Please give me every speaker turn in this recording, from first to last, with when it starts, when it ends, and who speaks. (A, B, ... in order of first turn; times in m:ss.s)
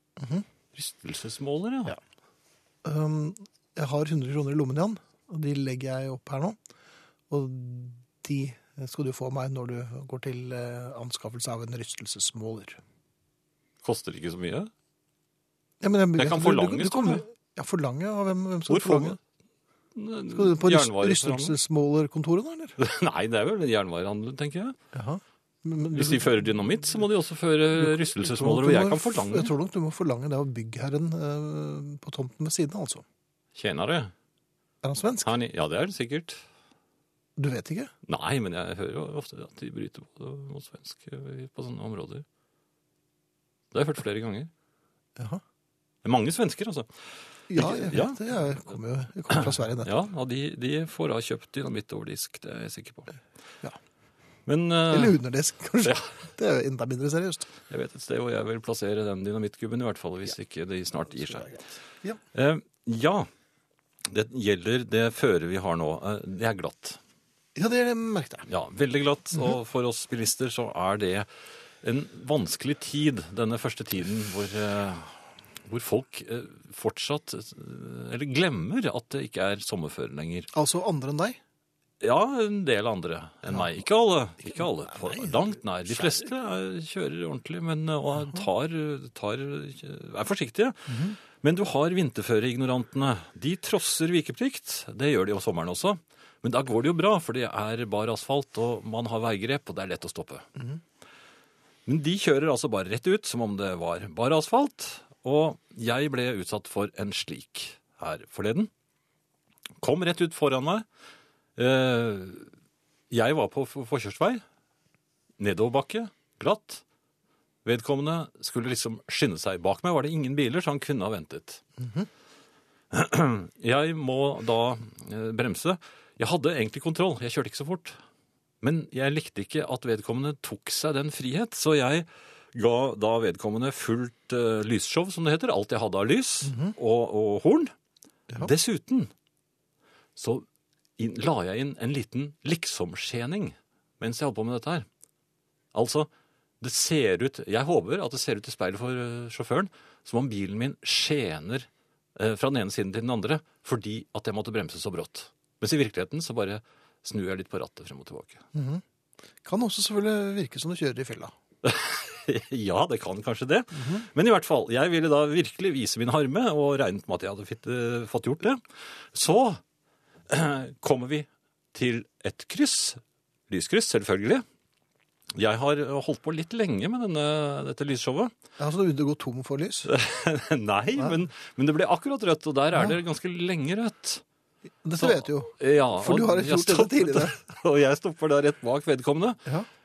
0:00.2-0:00.4 A
0:00.7-0:02.0 B
0:02.8-0:06.6 A
0:07.3-0:12.8 A
0:13.8-0:14.7 B
0:15.8-0:19.2 A
0:16.2-0:17.2 B
0:18.7-0:19.2 B
0:19.9-0:21.6 B
0:20.3-0:22.8 A
0:22.8-0:24.8 B
0:24.9-0:26.5 A
0:25.9-0:29.5 B
0:27.7-0:33.0 A
0:33.5-0:34.1 B
0:34.8-0:35.3 A
0:35.2-0:36.4 B
0:37.4-0:37.9 A
0:38.1-0:42.2 B
0:43.7-0:44.5 B
0:45.2-0:45.4 A
0:46.0-0:46.9 B
0:47.5-0:49.9 A
0:47.5-0:48.2 B
0:49.8-0:53.1 B
0:54.5-0:55.2 B
0:54.9-0:57.5 A
0:55.8-0:56.1 B
0:57.7-1:01.6 B
1:01.3-1:02.2 A
1:02.3-1:03.3 B
1:04.1-1:07.0 B
1:07.6-1:08.5 A
1:08.5-1:11.2 B
1:11.8-1:20.5 B
1:20.5-1:21.4 A
1:22.0-1:40.5 B
1:24.5-1:26.3 A
1:30.9-1:31.2 A
1:41.8-1:48.7 B
1:49.8-1:50.8 B
1:51.6-1:52.5 B
1:53.1-1:54.4 B
1:55.4-1:56.8 B
1:57.6-2:01.6 B
2:01.8-2:02.1 A
2:02.9-2:08.0 B
2:08.6-2:17.7 B
2:16.4-2:16.7 A
2:18.4-2:19.1 B
2:20.2-2:20.4 B
2:21.0-2:24.9 B
2:25.7-2:26.1 B
2:26.6-2:38.4 B
2:38.5-2:38.8 A
2:39.4-2:41.3 A
2:41.6-2:48.6 B
2:43.7-2:44.0 A
2:49.1-2:49.6 B
2:50.3-2:54.4 B
2:55.3-2:58.3 B
2:58.6-2:59.9 A
2:59.8-3:04.2 B
3:04.8-3:07.4 A
3:05.0-3:09.4 B